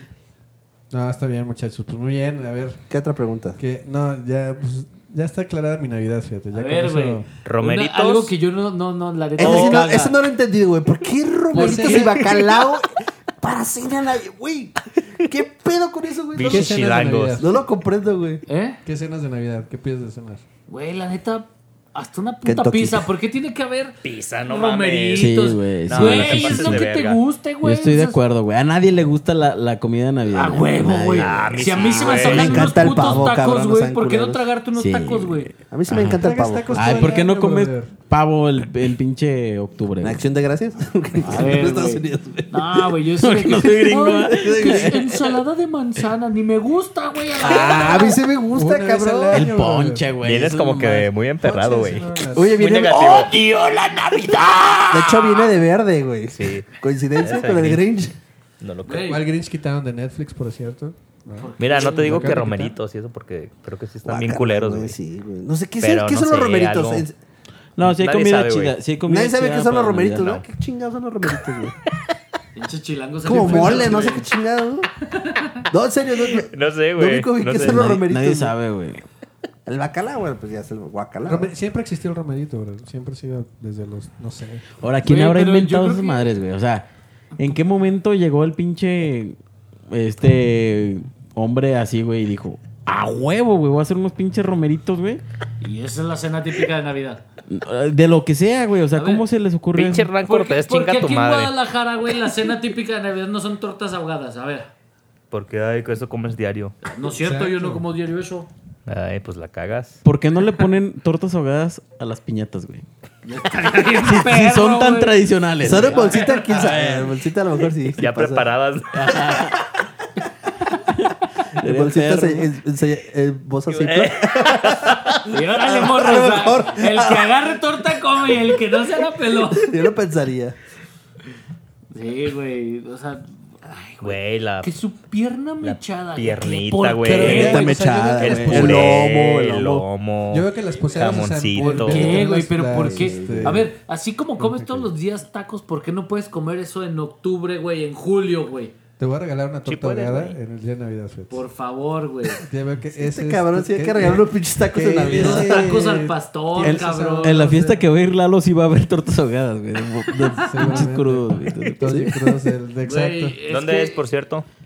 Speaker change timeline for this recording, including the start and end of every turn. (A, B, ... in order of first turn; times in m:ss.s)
0:00.9-0:02.9 A
0:02.9-0:03.6 B
0:03.6-0:07.2 A
0:06.5-0:10.1 C
0:07.4-0:08.3 D
0:09.4-0:16.8 B
0:09.4-0:09.8 D
0:11.5-0:12.1 C
0:11.5-0:12.2 A
0:16.3-0:17.4 D
0:16.4-0:17.6 A
0:17.4-0:18.4 B
0:18.5-0:18.8 C
0:18.8-0:20.4 A
0:20.7-0:28.2 C
0:22.4-0:23.1 B
0:24.0-0:25.3 D
0:25.2-0:26.9 E
0:25.8-0:27.2 D
0:27.6-0:33.2 E
0:30.3-0:35.5 C
0:31.2-0:32.7 D
0:32.1-0:34.4 B
0:34.7-0:40.2 E
0:35.7-0:37.2 B
0:36.0-0:37.9 A
0:40.0-0:42.7 B
0:41.2-0:48.2 C
0:41.3-0:41.8 E
0:43.2-0:45.0 E
0:44.3-0:45.0 B
0:47.4-0:49.5 B
0:47.4-0:48.0 E
0:48.5-0:50.1 A
0:49.3-0:51.1 E
0:50.2-0:53.3 D
0:51.4-0:52.6 A
0:52.3-0:55.4 E
0:54.9-0:58.1 B
0:56.3-0:57.9 D
0:58.6-0:59.1 D
0:58.8-0:59.2 C
0:59.0-1:02.7 A
1:01.4-1:02.7 C
1:01.6-1:05.0 D
1:04.0-1:07.1 B
1:05.8-1:07.0 D
1:07.8-1:10.4 E
1:07.8-1:08.8 D
1:09.0-1:11.8 B
1:12.5-1:14.3 C
1:13.2-1:14.9 B
1:13.3-1:14.1 A
1:15.0-1:15.7 C
1:15.7-1:18.5 B
1:16.4-1:17.8 D
1:17.6-1:19.0 E
1:19.6-1:21.5 B
1:21.2-1:24.6 A
1:24.8-1:29.4 E
1:25.0-1:26.3 C
1:29.9-1:35.2 E
1:35.6-1:37.2 C
1:37.5-1:40.1 E
1:38.9-1:39.2 C
1:39.8-1:41.5 D
1:40.2-1:44.7 C
1:45.3-1:46.8 D
1:46.8-1:48.5 C
1:47.2-1:47.8 A
1:48.9-1:50.0 D
1:50.0-1:52.8 E
1:53.2-1:56.6 C
1:54.0-1:57.2 E
1:55.6-1:58.5 B
1:58.0-1:59.5 D
1:58.9-1:59.6 E
2:00.7-2:02.5 E
2:01.6-2:07.5 B
2:03.7-2:05.2 D
2:05.3-2:09.8 C
2:09.5-2:10.6 B
2:11.9-2:17.7 C
2:14.0-2:14.7 D
2:15.6-2:22.2 D
2:17.0-2:19.0 A
2:17.2-2:19.8 B
2:20.3-2:23.7 A
2:21.6-2:28.7 C
2:22.7-2:23.6 B
2:24.4-2:24.9 A
2:29.0-2:31.4 A
2:29.6-2:30.4 D
2:31.3-2:32.4 C
2:32.4-2:37.8 A
2:32.9-2:35.7 B
2:35.1-2:37.5 C
2:36.6-2:42.2 E
2:40.4-2:40.7 C
2:40.4-2:43.4 A
2:42.8-2:44.0 C
2:43.5-2:44.4 D